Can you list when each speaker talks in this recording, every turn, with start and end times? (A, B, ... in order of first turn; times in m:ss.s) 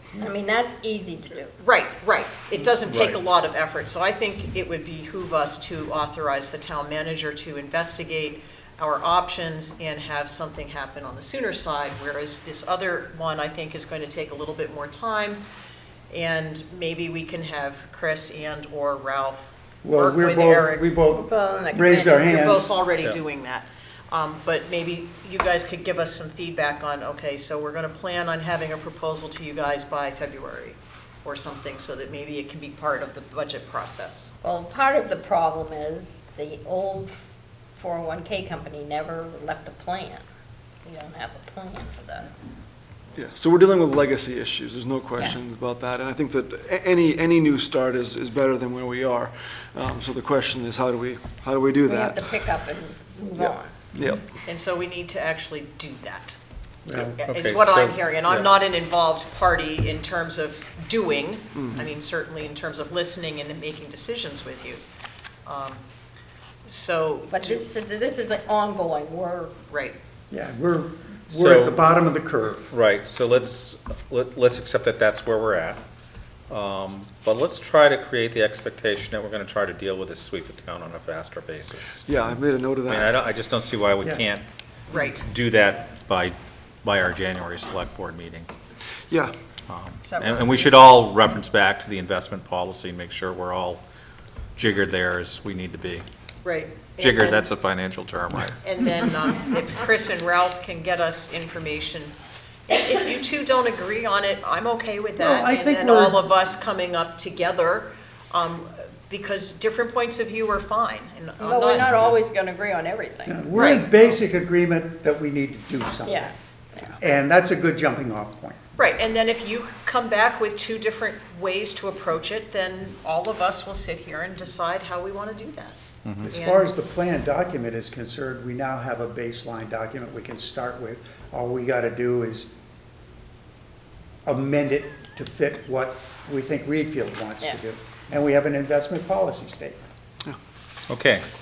0:00.2-0:01.5 A
0:01.6-0:15.4 B
0:02.8-0:03.2 C
0:16.1-0:20.9 B
0:19.8-0:22.7 D
0:21.1-0:22.2 A
0:21.9-0:34.3 B
0:34.4-0:37.1 A
0:37.8-0:40.2 A
0:40.8-0:42.3 A
0:43.1-0:52.3 E
0:51.9-0:53.7 A
0:53.4-0:54.2 E
0:54.4-0:56.4 B
0:56.8-0:57.1 D
0:56.9-1:04.8 B
0:57.3-0:58.5 C
1:05.4-1:05.8 B
1:06.6-1:07.6 B
1:07.3-1:09.5 A
1:09.7-1:10.0 B
1:10.3-1:12.7 D
1:11.3-1:11.8 C
1:12.7-1:15.8 C
1:16.5-1:22.0 C
1:22.0-1:23.2 E
1:22.9-1:24.4 C
1:24.9-1:25.3 B
1:25.2-1:28.5 C
1:29.7-1:33.8 C
1:30.0-1:30.8 B
1:34.6-1:36.0 C
1:36.4-1:37.5 B
1:37.0-1:38.6 C
1:38.6-1:42.1 B
1:42.7-1:52.0 B
1:45.2-1:46.2 D
1:51.4-1:53.4 A
1:53.3-1:56.3 D
1:53.5-1:54.0 B
1:56.0-1:56.9 A
1:57.0-1:58.6 D
1:58.8-2:05.8 B
2:06.2-2:12.5 D
2:06.3-2:06.7 B
2:14.2-2:19.9 D
2:20.9-2:21.2 C